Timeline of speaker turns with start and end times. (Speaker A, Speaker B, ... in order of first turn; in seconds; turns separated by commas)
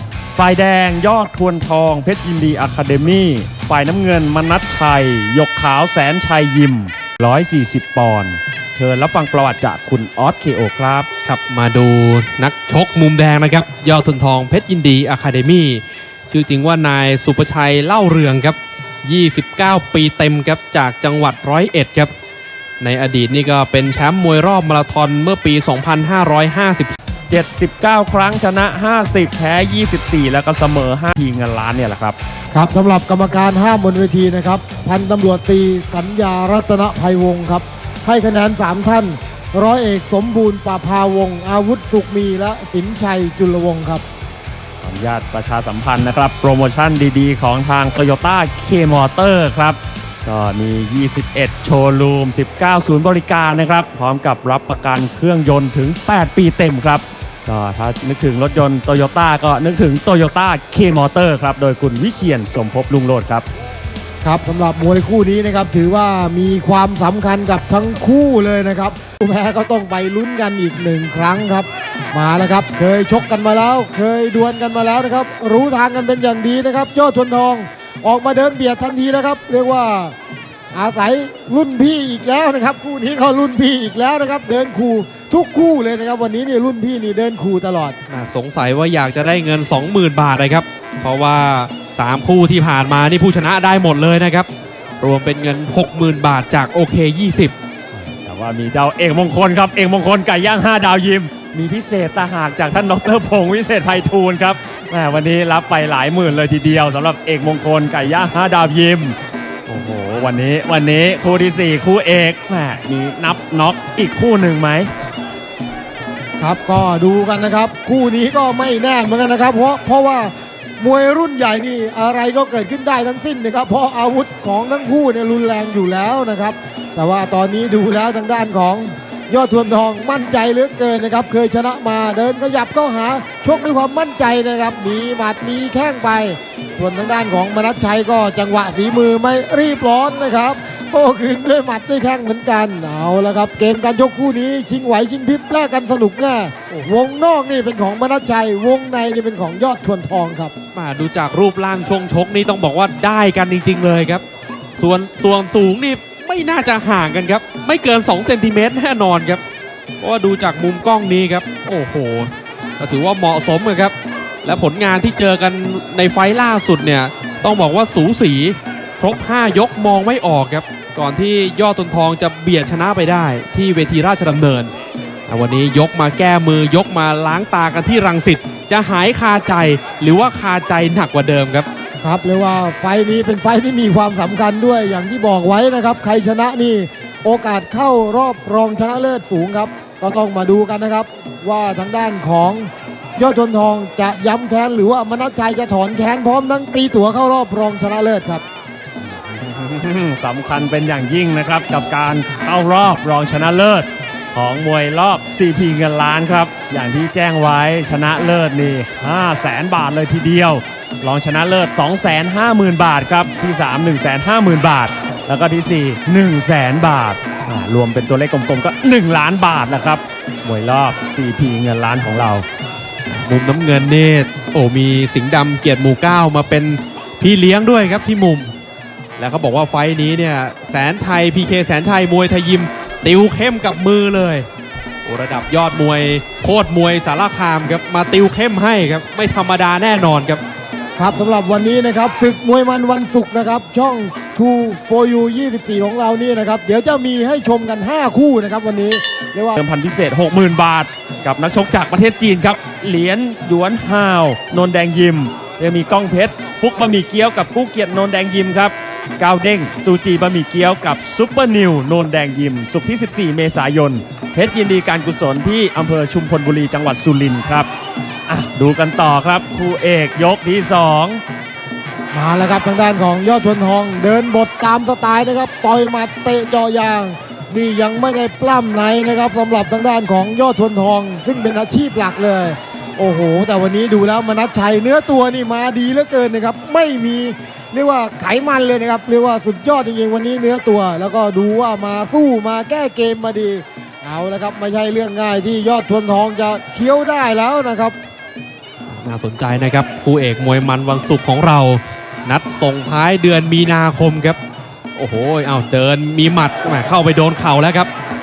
Speaker A: 0.3-11.1, Speaker B: 11.2-22.1, Speaker B: 22.8-26.9, Speaker A: 27.3-32.2, Speaker C: 32.5-44.0, Speaker A: 44.8-63.5, Speaker C: 64.2-80.2, Speaker C: 80.7-88.0, Speaker B: 88.1-94.5, Speaker B: 95.0-97.5, Speaker A: 97.9-109.2, Speaker A: 109.7-114.9, Speaker C: 116.4-150.5, Speaker B: 150.7-154.2, Speaker B: 154.8-159.4, Speaker B: 160.0-163.9, Speaker B: 164.4-174.7, Speaker B: 175.3-181.7, Speaker C: 182.0-198.4, Speaker A: 199.1-222.5, Speaker B: 223.1-228.5, Speaker B: 229.2-234.5, Speaker B: 235.1-240.4, Speaker C: 241.0-249.6, Speaker A: 249.6-267.7, Speaker A: 268.3-271.2, Speaker C: 272.1-298.0, Speaker B: 298.9-304.4, Speaker B: 305.0-307.9